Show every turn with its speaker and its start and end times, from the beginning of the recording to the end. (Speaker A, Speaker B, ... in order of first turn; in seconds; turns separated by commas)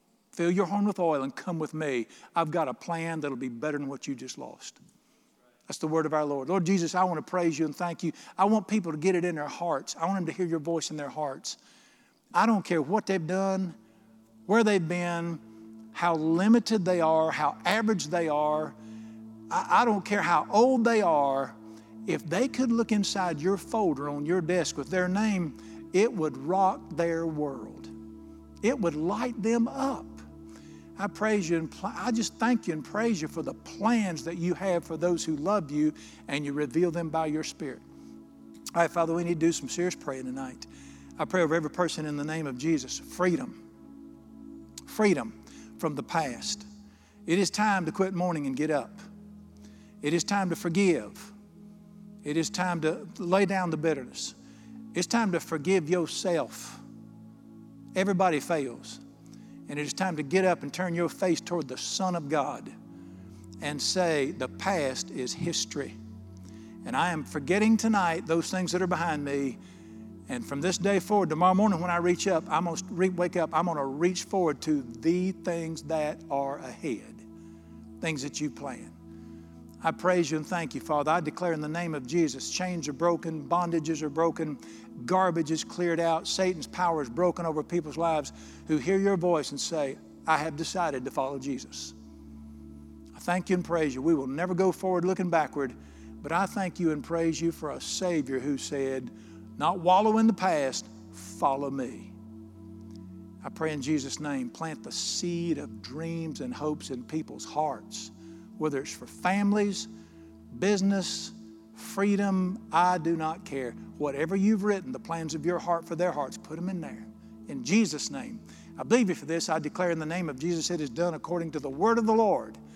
Speaker A: 0.3-4.8, Speaker A: 5.7-11.6, Speaker A: 12.3-13.8, Speaker A: 14.5-15.4, Speaker A: 15.9-18.8, Speaker A: 19.5-27.9, Speaker A: 28.6-30.2, Speaker A: 31.0-37.8, Speaker A: 38.7-40.7, Speaker A: 41.2-43.6, Speaker A: 44.9-46.7, Speaker A: 47.3-49.0, Speaker A: 50.0-51.3, Speaker A: 52.2-54.4, Speaker A: 54.9-56.8, Speaker A: 58.0-59.0, Speaker A: 59.7-62.7, Speaker A: 63.6-65.9, Speaker A: 66.8-69.6, Speaker A: 70.3-77.2, Speaker A: 78.0-78.9, Speaker A: 79.8-91.9, Speaker A: 93.2-102.1, Speaker A: 103.4-109.9, Speaker A: 110.5-122.6